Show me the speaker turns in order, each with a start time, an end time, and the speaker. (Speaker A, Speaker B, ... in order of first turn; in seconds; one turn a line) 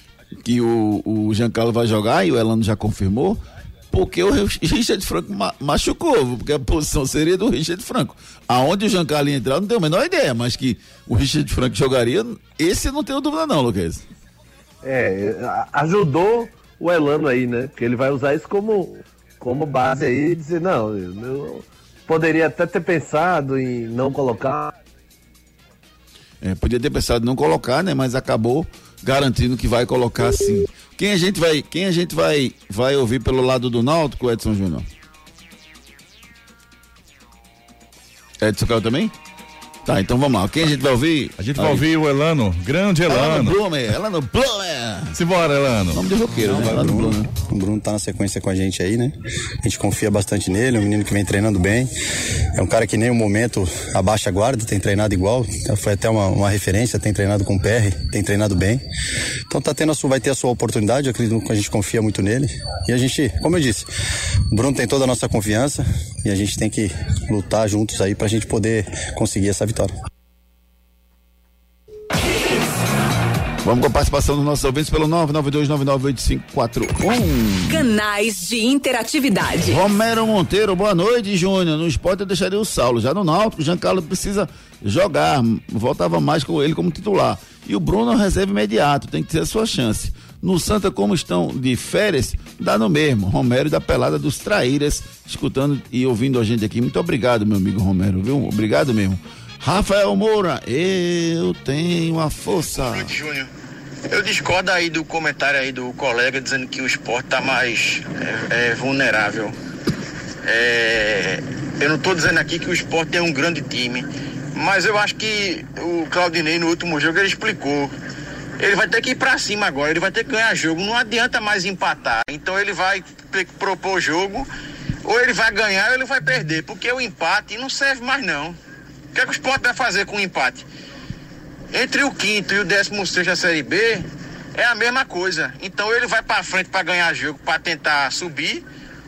Speaker A: 0.4-14.0
Speaker B: 14.8-24.7
Speaker A: 26.4-34.9
Speaker A: 38.4-39.1
Speaker A: 39.9-41.9
Speaker C: 41.4-43.5
Speaker A: 43.1-45.2
Speaker C: 45.1-46.0
Speaker A: 45.9-47.3
Speaker D: 46.4-51.9
Speaker D: 52.5-58.8
Speaker D: 59.5-63.9
Speaker D: 64.5-69.9
Speaker A: 73.6-77.8
Speaker E: 77.7-79.8
Speaker A: 79.7-103.1
Speaker F: 102.8-103.5
Speaker F: 104.1-109.5
Speaker F: 110.4-117.9
Speaker F: 118.6-124.5
Speaker F: 125.0-128.6
Speaker F: 129.1-130.7
Speaker F: 131.7-138.6